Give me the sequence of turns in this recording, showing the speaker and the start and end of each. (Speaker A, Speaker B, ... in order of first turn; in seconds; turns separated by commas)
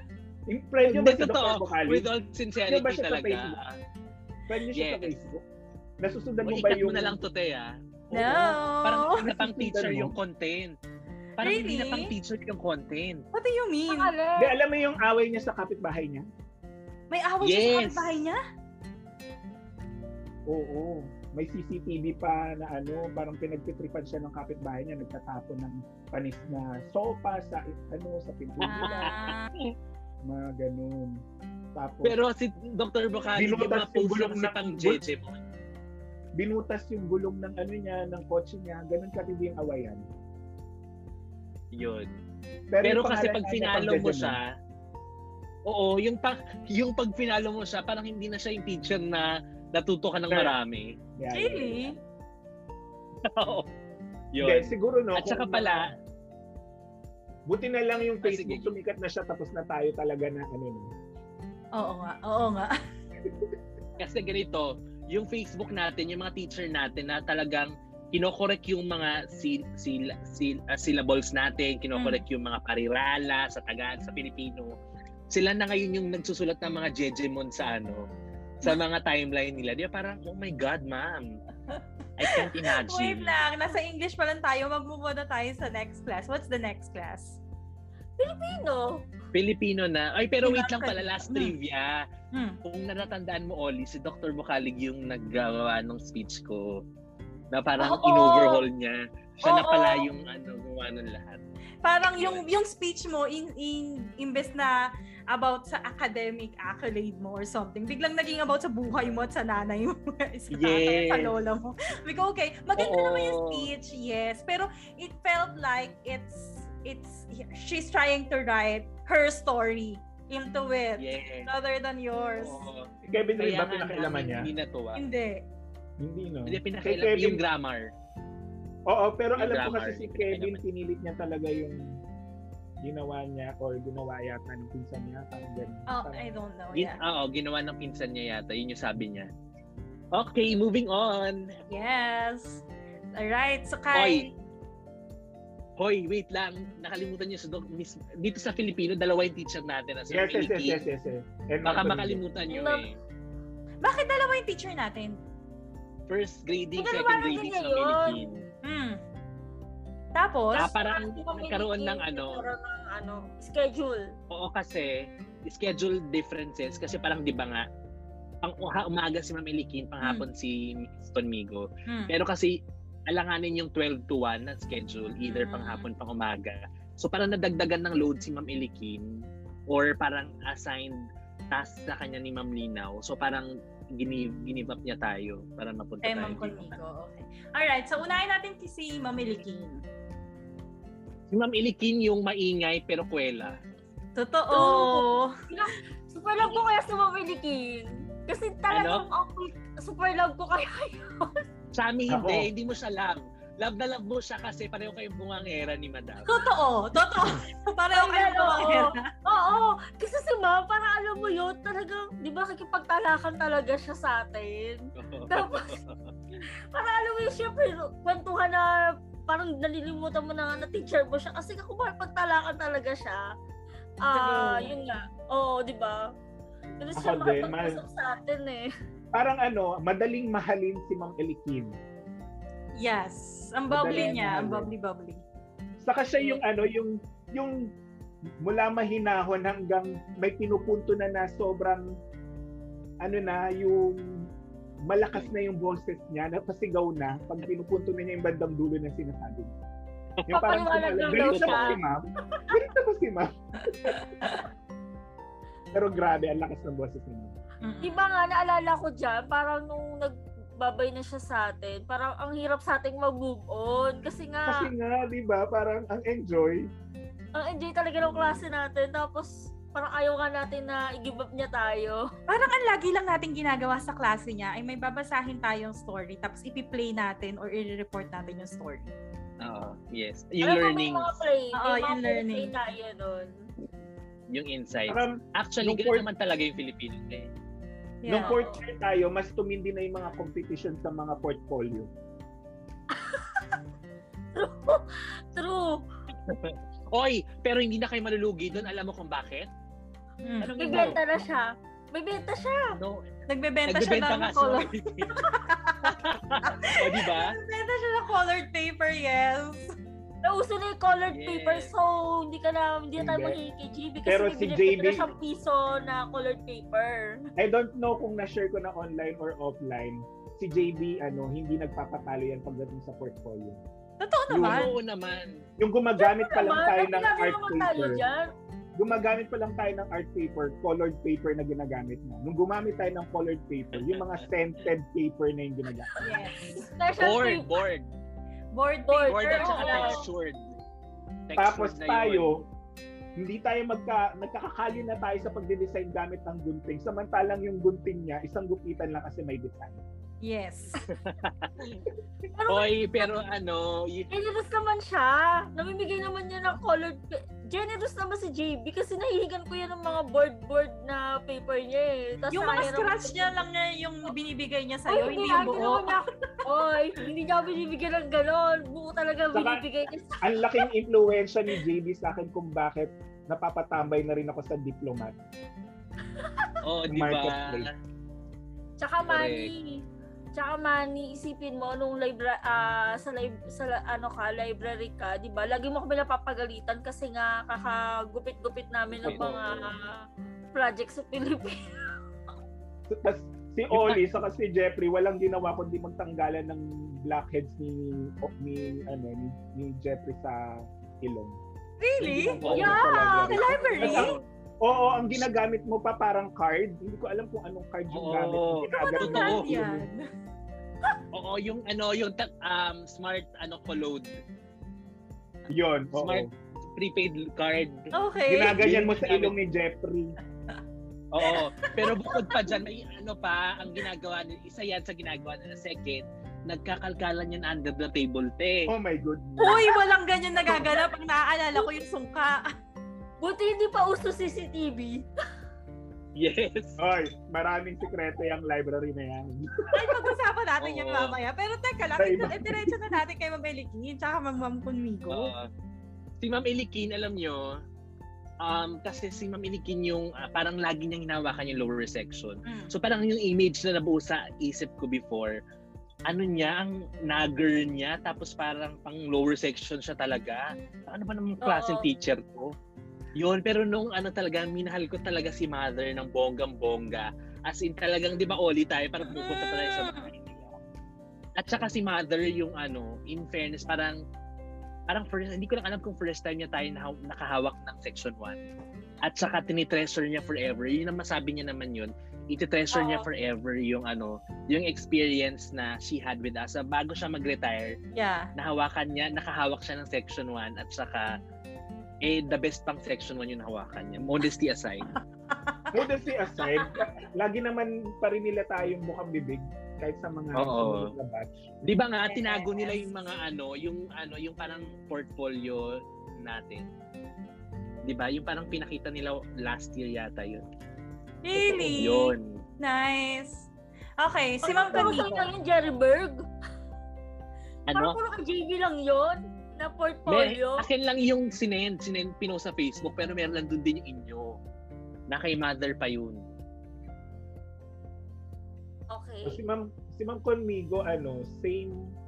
Speaker A: 0.5-2.1, Speaker B: 0.8-3.8, Speaker A: 2.7-3.6, Speaker A: 4.5-5.4, Speaker B: 4.7-5.2, Speaker A: 6.0-7.2, Speaker B: 6.4-7.7, Speaker A: 8.1-8.6, Speaker C: 8.1-9.3, Speaker B: 8.3-10.8, Speaker A: 9.2-10.2, Speaker B: 11.4-13.2, Speaker C: 11.4-12.1, Speaker C: 13.3-14.1, Speaker D: 13.9-14.6, Speaker A: 14.4-16.3, Speaker C: 17.1-18.4, Speaker B: 17.4-18.1, Speaker A: 20.5-29.1, Speaker C: 28.6-29.5, Speaker B: 28.6-29.7, Speaker A: 30.2-31.2, Speaker A: 31.8-32.1, Speaker B: 32.0-35.4, Speaker A: 33.4-35.0, Speaker A: 36.4-40.0, Speaker B: 41.7-42.1, Speaker A: 42.7-44.4, Speaker B: 42.8-44.5, Speaker B: 45.7-51.0, Speaker A: 51.2-52.0, Speaker C: 51.3-52.0, Speaker B: 53.3-53.7, Speaker B: 54.3-55.9, Speaker A: 54.4-55.9, Speaker A: 57.5-60.9, Speaker B: 58.2-58.7, Speaker C: 61.8-62.7, Speaker B: 64.0-74.7, Speaker C: 72.0-72.2, Speaker B: 75.3-78.0, Speaker B: 78.6-81.3, Speaker B: 82.2-83.4, Speaker C: 82.3-87.4, Speaker D: 88.2-89.1, Speaker B: 89.3-92.1, Speaker C: 90.4-91.5, Speaker B: 92.6-96.8, Speaker B: 97.5-101.4, Speaker D: 97.9-98.6, Speaker C: 99.4-100.1, Speaker C: 101.8-104.8, Speaker B: 102.2-102.5, Speaker C: 105.3-122.7, Speaker B: 110.5-111.3, Speaker B: 112.8-113.7, Speaker B: 121.0-121.5, Speaker B: 122.4-125.0, Speaker A: 123.1-124.5, Speaker C: 125.0-125.4, Speaker A: 126.0-127.4, Speaker B: 126.5-127.9, Speaker A: 128.9-132.0, Speaker B: 129.4-130.6, Speaker A: 132.8-136.3, Speaker C: 135.9-137.0, Speaker B: 136.7-139.3, Speaker B: 140.1-141.5, Speaker C: 141.7-142.6, Speaker C: 143.2-144.3, Speaker B: 143.9-144.3, Speaker B: 145.8-150.8, Speaker A: 150.1-152.2, Speaker B: 151.6-152.9, Speaker D: 152.5-152.8, Speaker C: 153.8-155.2, Speaker B: 156.1-158.4, Speaker D: 156.8-158.2, Speaker C: 158.7-159.0, Speaker C: 160.2-160.7, Speaker D: 160.6-164.1, Speaker B: 160.6-162.5, Speaker B: 164.3-167.7, Speaker B: 168.4-172.6, Speaker C: 170.0-170.3, Speaker C: 171.9-172.1, Speaker B: 173.1-179.1, Speaker C: 175.2-175.9, Speaker B: 179.7-181.0, Speaker B: 181.5-186.8, Speaker C: 186.0-189.8, Speaker B: 191.3-193.6, Speaker C: 194.2-195.3, Speaker D: 194.5-201.4, Speaker B: 198.7-199.1, Speaker B: 201.8-206.4, Speaker A: 202.1-202.5, Speaker C: 206.3-209.1, Speaker D: 207.9-215.8, Speaker B: 215.0-216.1, Speaker D: 216.4-223.3, Speaker D: 224.0-226.1, Speaker C: 224.1-224.7, Speaker D: 226.8-228.7, Speaker A: 227.0-227.8, Speaker A: 229.1-231.8, Speaker C: 232.8-235.2, Speaker A: 233.7-234.7, Speaker D: 233.9-234.1, Speaker A: 235.8-237.7, Speaker A: 238.4-241.9, Speaker A: 243.0-244.3, Speaker A: 244.9-249.6, Speaker A: 250.3-254.0, Speaker D: 250.3-251.8, Speaker B: 251.1-251.8, Speaker C: 253.8-254.4, Speaker A: 255.7-257.4, Speaker C: 257.6-258.0, Speaker D: 257.8-264.7, Speaker A: 264.4-266.7, Speaker D: 267.4-272.1, Speaker B: 268.0-268.4, Speaker C: 272.3-278.9, Speaker B: 279.4-281.1, Speaker D: 280.4-283.4, Speaker C: 281.5-282.5, Speaker B: 284.3-287.3, Speaker A: 284.9-286.1, Speaker C: 288.0-288.4, Speaker A: 288.1-291.9, Speaker D: 288.2-288.6, Speaker D: 292.9-293.5, Speaker D: 294.4-295.8, Speaker B: 296.3-299.5, Speaker C: 300.2-300.9, Speaker B: 300.4-301.0, Speaker D: 300.6-302.8, Speaker B: 302.8-303.0, Speaker C: 303.3-309.7, Speaker B: 303.7-305.2, Speaker B: 305.8-307.4, Speaker D: 310.2-317.2, Speaker B: 311.1-311.7, Speaker A: 313.0-313.4, Speaker A: 314.0-315.1, Speaker A: 317.4-323.6, Speaker C: 324.0-324.7, Speaker A: 324.3-324.6, Speaker B: 324.4-325.3, Speaker A: 325.6-328.0, Speaker D: 326.0-328.3, Speaker A: 328.8-335.9, Speaker B: 333.8-334.0, Speaker D: 336.0-337.5, Speaker C: 336.0-336.6, Speaker B: 337.0-337.9, Speaker C: 338.5-340.1, Speaker D: 338.9-340.0, Speaker B: 339.1-340.6, Speaker B: 341.3-342.4, Speaker A: 341.4-342.4, Speaker A: 343.2-349.8, Speaker C: 350.2-350.8, Speaker B: 350.9-351.8, Speaker D: 352.3-353.1, Speaker B: 352.5-354.1, Speaker D: 354.1-363.3, Speaker C: 362.3-366.0, Speaker D: 364.9-370.6, Speaker A: 369.3-369.6, Speaker A: 370.2-375.2, Speaker D: 376.2-376.6, Speaker B: 376.6-377.7, Speaker A: 376.9-377.7, Speaker D: 378.8-391.9, Speaker B: 379.1-379.5, Speaker B: 389.0-389.6, Speaker A: 389.0-389.4, Speaker A: 392.9-401.4, Speaker B: 393.7-394.0, Speaker C: 401.8-402.4, Speaker A: 402.0-409.9, Speaker B: 402.4-402.9, Speaker D: 402.5-404.1, Speaker C: 403.1-404.1, Speaker B: 403.8-404.2, Speaker B: 407.9-409.6, Speaker C: 408.7-410.0, Speaker B: 411.1-414.1, Speaker A: 415.5-416.3, Speaker B: 416.0-417.9, Speaker C: 417.9-418.6, Speaker A: 418.3-420.1, Speaker B: 418.6-419.3, Speaker B: 421.1-428.7, Speaker C: 421.2-422.5, Speaker A: 428.7-429.7, Speaker C: 429.4-432.5, Speaker D: 433.2-435.1, Speaker B: 436.2-436.8, Speaker A: 436.8-439.7, Speaker C: 439.7-445.3, Speaker B: 440.6-441.1, Speaker A: 442.0-442.8, Speaker B: 445.1-445.5, Speaker B: 446.2-447.5, Speaker B: 448.4-455.4, Speaker C: 452.5-452.7, Speaker B: 456.1-462.5, Speaker D: 461.4-461.9, Speaker B: 463.2-470.4, Speaker C: 469.1-470.1, Speaker B: 471.4-474.0, Speaker B: 474.9-478.4, Speaker B: 479.0-487.8, Speaker D: 482.7-483.1, Speaker C: 487.9-488.3, Speaker B: 488.4-491.1, Speaker B: 492.0-494.9, Speaker C: 495.3-495.7, Speaker A: 495.7-501.4, Speaker B: 500.4-500.9, Speaker B: 501.6-506.7, Speaker C: 502.1-502.8, Speaker B: 507.9-510.4, Speaker C: 511.2-513.5, Speaker B: 511.4-512.4, Speaker C: 514.0-515.3, Speaker D: 514.4-516.3, Speaker B: 517.7-518.0, Speaker D: 517.7-520.7, Speaker B: 520.1-524.4, Speaker B: 525.1-526.2, Speaker D: 528.9-529.4, Speaker A: 529.2-531.9